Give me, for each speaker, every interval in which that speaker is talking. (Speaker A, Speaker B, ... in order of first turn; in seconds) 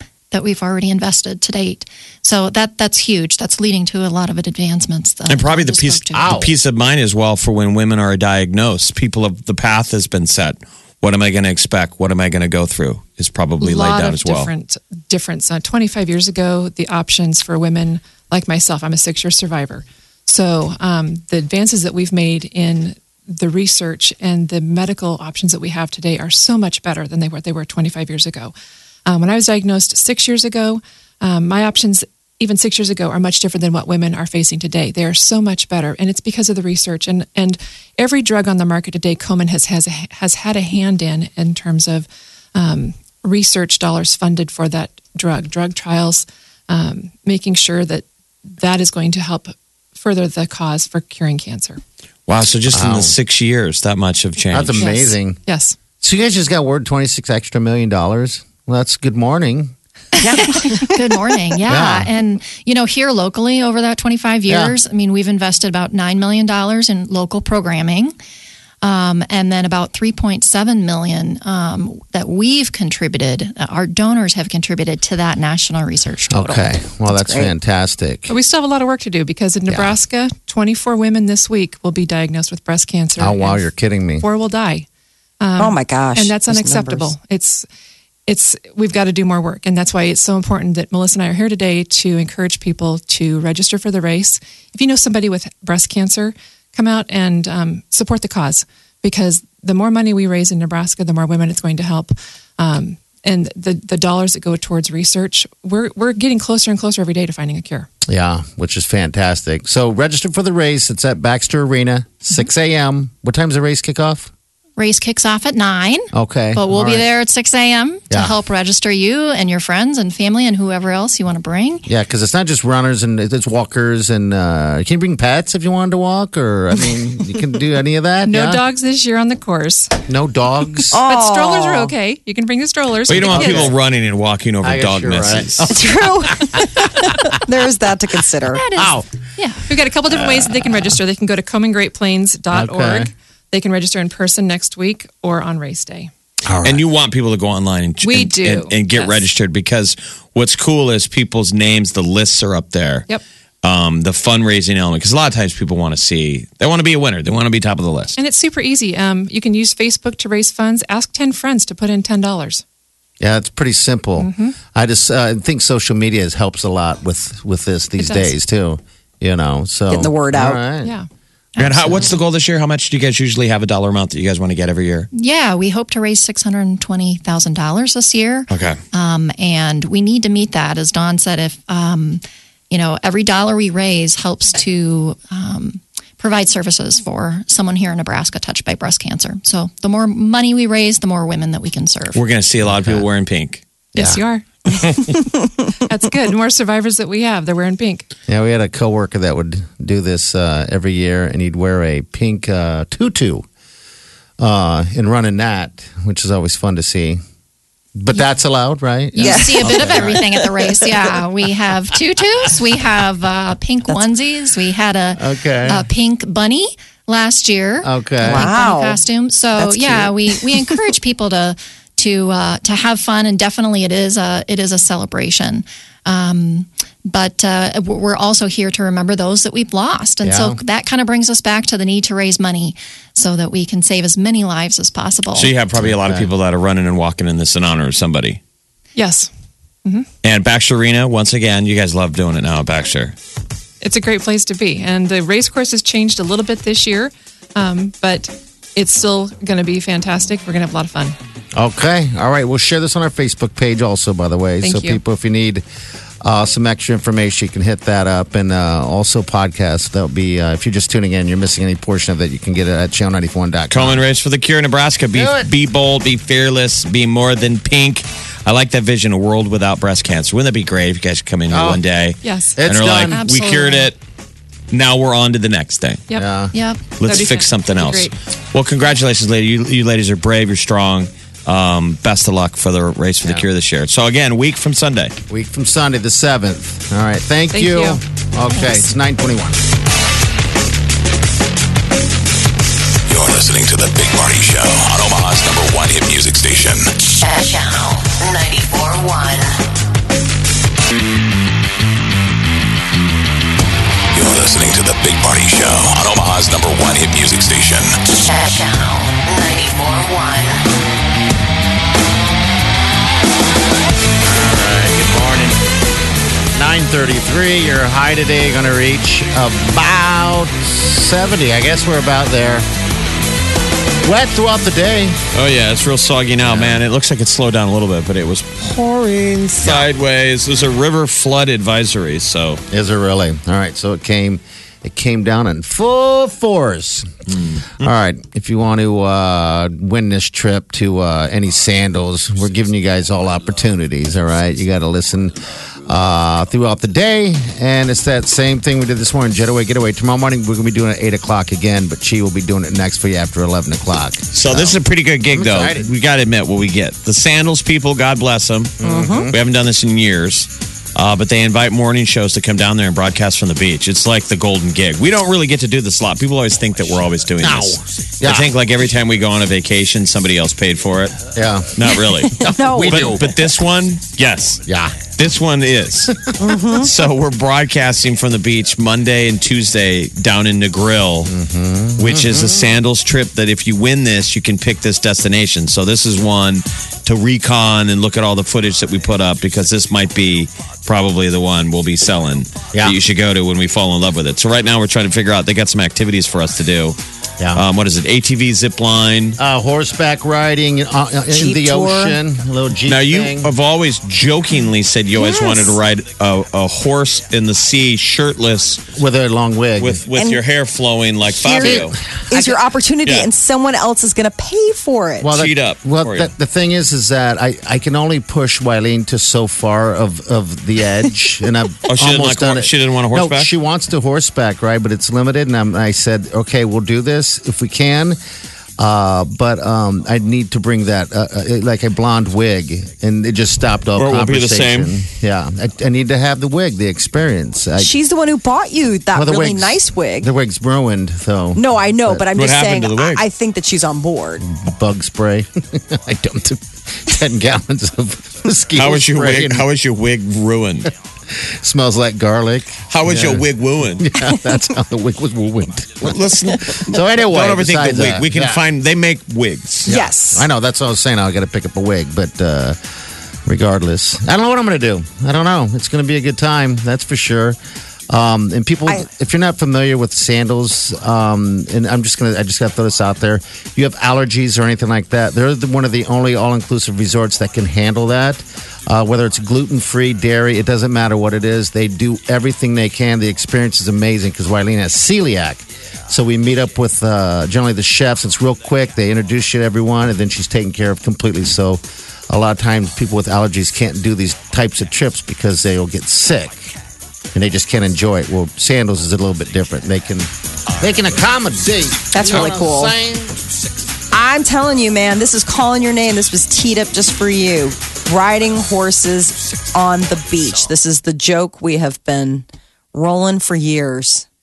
Speaker A: 0.3-6.3, 60.3-68.1, 68.8-76.7, 114.8-121.9, 138.5-139.6, 171.5-172.1, 175.1-192.2, 209.2-235.5, 273.1-273.9, 276.5-276.8
Speaker B: 5.3-14.5, 52.3-54.9, 133.1-135.7, 146.6-153.1, 153.6-158.2, 171.6-175.1, 178.5-178.8, 192.1-193.6, 235.3-238.4, 240.2-243.1, 263.7-274.0, 274.7-276.1, 277.0-285.1, 325.3-332.6, 337.4-337.7, 354.3-381.3, 382.0-397.0, 397.5-399.4, 402.9-408.9, 409.8-412.0, 413.0-413.3, 415.3-416.3, 421.9-423.5, 433.9-435.0, 442.3-443.2, 448.8-450.9, 452.9-454.1, 456.0-459.9
Speaker C: 6.1-6.5, 52.7-53.1, 54.5-55.4, 56.0-59.7, 61.7-62.1, 64.5-64.7, 76.3-78.3, 79.7-79.9, 83.2-84.2, 108.1-114.3, 116.1-117.1, 121.9-128.6, 130.1-131.0, 133.3-133.7, 134.6-137.1, 138.7-139.1, 140.1-140.5, 142.5-143.1, 146.4-146.8, 163.2-170.9, 192.6-193.1, 193.9-194.2, 198.3-203.4, 204.4-207.2, 208.0-210.2, 215.2-215.8, 217.8-218.4, 230.2-230.6, 235.7-236.3, 251.5-255.6, 256.2-264.0, 265.1-265.5, 271.5-271.8, 272.6-273.2, 276.1-276.6, 285.3-289.6, 314.2-315.6, 316.5-322.7, 324.0-325.2, 326.4-326.8, 332.7-337.1, 337.8-354.8, 355.3-355.9, 358.8-359.3, 367.4-368.6, 371.3-371.9, 372.4-373.3, 374.6-375.0, 381.2-382.8, 392.7-393.0, 397.4-397.6, 399.4-403.5, 408.9-410.0, 411.6-412.6, 415.2-428.2, 428.8-437.9, 439.1-442.3, 444.4-449.7, 451.5-453.4, 454.0-458.6, 459.9-462.8, 463.4-467.6, 468.1-496.7, 497.3-503.4
Speaker D: 13.6-28.5, 29.1-51.8, 54.8-55.8, 78.3-84.8, 85.4-87.7, 88.3-107.9, 128.2-129.9, 131.0-133.7, 139.5-146.1, 148.0-149.3, 158.2-162.6, 164.2-164.6, 193.9-198.1, 238.9-239.3, 243.8-251.2, 254.6-255.0, 272.2-272.6, 277.0-278.1, 287.5-288.0
Speaker E: 60.2-60.8, 77.1-77.5, 85.6-87.1, 130.9-131.9, 135.7-138.7, 169.9-170.6, 209.2-211.1, 218.2-219.0, 219.6-220.8, 358.8-359.3, 372.2-373.5, 376.4-376.9, 401.3-402.2, 405.1-405.8, 410.1-410.4, 411.3-415.4, 437.8-440.3, 441.5-444.4, 459.9-460.5, 502.1-502.9, 504.1-514.2
Speaker F: 293.1-296.8, 304.1-307.9
Speaker G: 297.1-299.5, 308.1-310.6